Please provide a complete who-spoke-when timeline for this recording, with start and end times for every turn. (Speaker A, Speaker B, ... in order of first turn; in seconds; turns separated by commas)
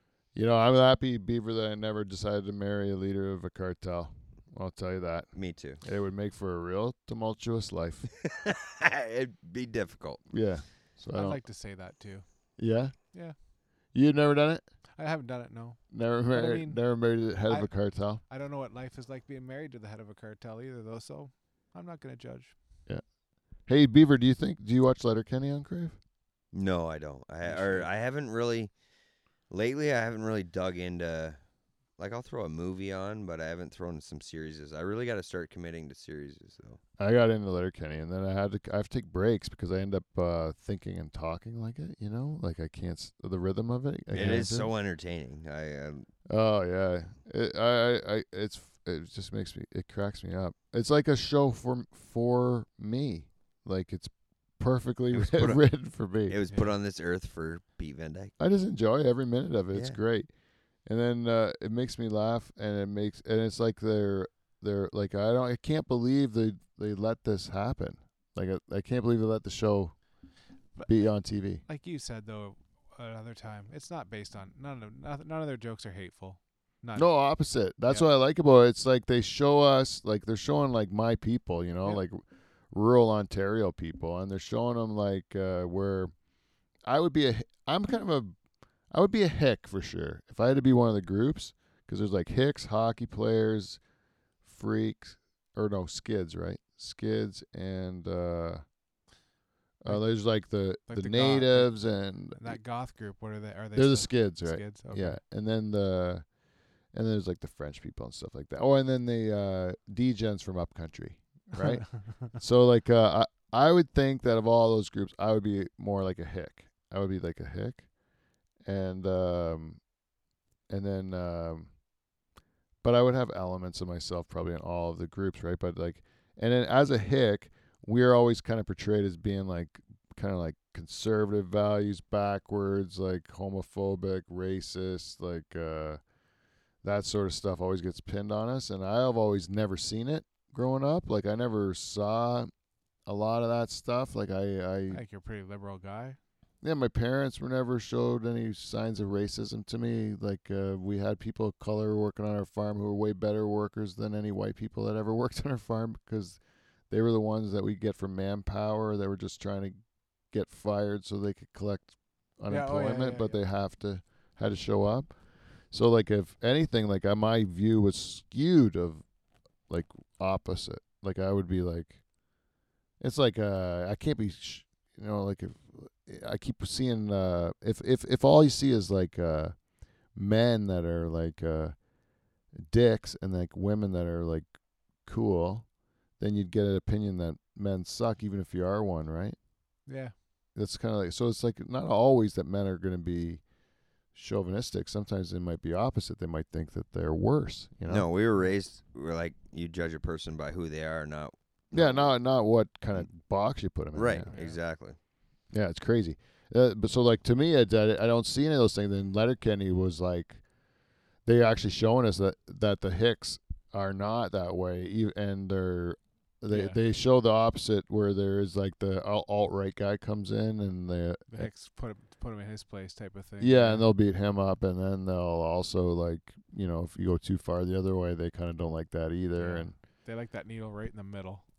Speaker A: 0.3-8.1, Speaker B: 5.3-5.8, Speaker B: 8.2-10.2, Speaker A: 10.3-11.4, Speaker C: 11.1-12.2, Speaker A: 12.6-13.1, Speaker C: 13.1-13.4, Speaker A: 13.9-14.6, Speaker C: 15.0-22.6, Speaker A: 15.9-18.2, Speaker A: 23.6-25.9, Speaker B: 26.5-28.7, Speaker C: 27.4-27.9, Speaker B: 29.5-31.4, Speaker B: 32.0-36.8, Speaker A: 37.0-44.7, Speaker B: 44.1-46.1, Speaker A: 46.3-56.4, Speaker B: 55.1-55.6, Speaker B: 56.3-58.3, Speaker A: 58.4-60.3, Speaker B: 59.7-60.0, Speaker A: 60.9-70.0, Speaker C: 70.8-71.1, Speaker A: 70.8-71.6, Speaker C: 71.6-77.1, Speaker A: 77.0-86.1, Speaker A: 86.9-88.3, Speaker A: 88.9-93.8, Speaker A: 94.4-98.6, Speaker A: 99.8-102.6, Speaker C: 99.8-100.1, Speaker C: 100.9-101.8, Speaker C: 102.3-105.2, Speaker A: 103.7-106.2, Speaker A: 106.9-117.9, Speaker C: 111.9-112.2, Speaker A: 118.6-119.8, Speaker A: 120.7-121.7, Speaker A: 122.8-136.0, Speaker A: 136.8-142.5, Speaker A: 143.1-145.0, Speaker C: 144.9-146.2, Speaker A: 146.6-156.4, Speaker A: 156.9-159.8, Speaker A: 160.3-169.0, Speaker C: 162.5-163.4, Speaker A: 169.7-172.0, Speaker A: 173.0-179.5, Speaker A: 180.1-181.8, Speaker A: 182.6-184.5, Speaker A: 185.0-185.7, Speaker A: 186.2-189.4, Speaker C: 189.8-190.1, Speaker A: 190.5-193.4, Speaker A: 194.1-198.1, Speaker B: 197.8-202.1, Speaker A: 201.7-204.3, Speaker B: 203.9-205.0, Speaker C: 204.3-204.6, Speaker A: 205.5-210.4, Speaker A: 211.2-221.5, Speaker C: 216.5-216.8, Speaker C: 221.3-223.9, Speaker A: 223.4-229.7, Speaker C: 229.4-231.4